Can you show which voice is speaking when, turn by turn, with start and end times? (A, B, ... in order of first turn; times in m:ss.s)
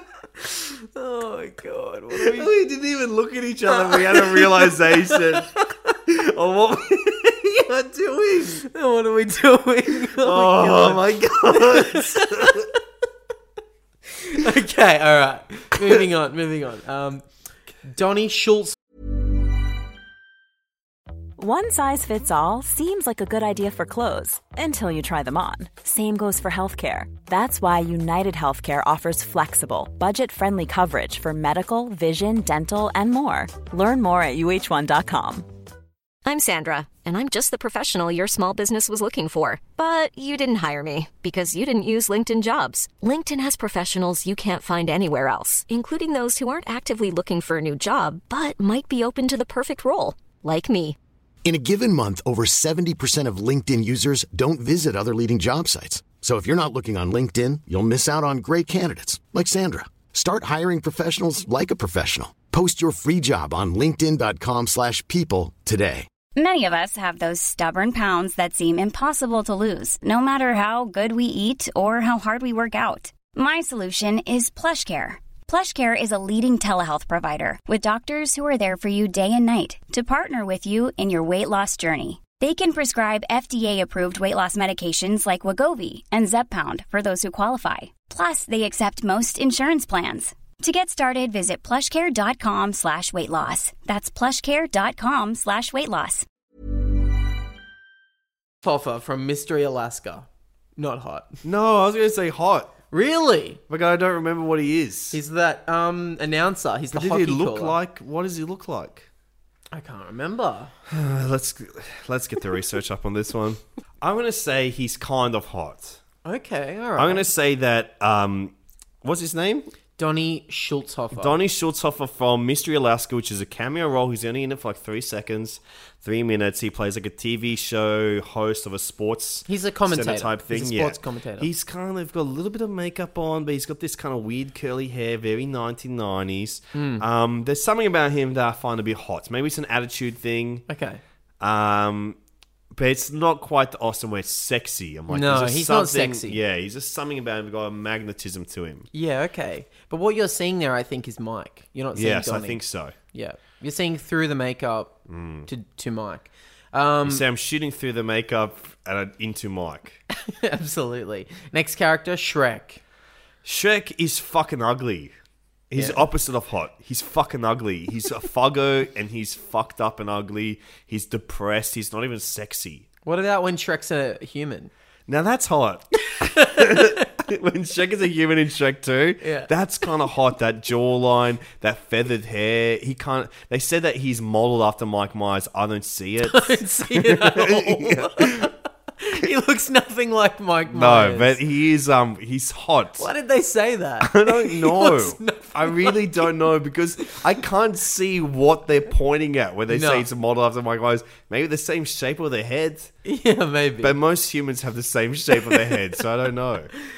0:00.4-0:02.5 A
0:02.1-0:08.6 B
0:03.8-0:05.6 A
0:08.6-0:12.7 A
0:10.0-0:12.6 B
0:14.1-0:17.2 A
0:17.8-0:18.8 A
0:21.4-0:35.5 C
0:36.2-0:51.0 D
0:51.4-1:06.1 E
1:06.3-1:36.2 F
1:38.6-1:41.4 A
1:41.4-1:42.7 B
1:42.9-1:43.6 A
1:43.7-1:45.2 B
1:45.1-1:47.8 A
1:46.9-1:49.1 B
1:49.7-1:50.7 A
1:50.9-1:56.0 B
1:56.2-1:57.3 A
1:57.0-1:59.7 B
2:00.0-2:01.3 A
2:01.1-2:20.6 B
2:09.5-2:11.5 A
2:16.7-2:17.0 A
2:20.7-2:21.0 A
2:21.4-2:22.2 B
2:22.7-2:28.9 B
2:25.1-2:26.4 A
2:28.9-2:37.2 A
2:31.9-2:32.9 B
2:35.1-2:35.5 B
2:37.0-2:40.0 B
2:40.2-2:42.8 A
2:43.4-2:45.1 B
2:45.7-2:52.9 B
2:45.8-2:46.0 A
2:53.0-2:54.7 A
2:55.1-3:08.5 B
2:56.1-2:57.0 A
2:59.2-2:59.5 A
3:06.2-3:11.4 A
3:10.7-3:13.1 B
3:13.0-3:16.3 A
3:14.0-3:22.9 B
3:19.7-3:20.1 A
3:23.0-3:24.0 A
3:23.8-3:26.7 B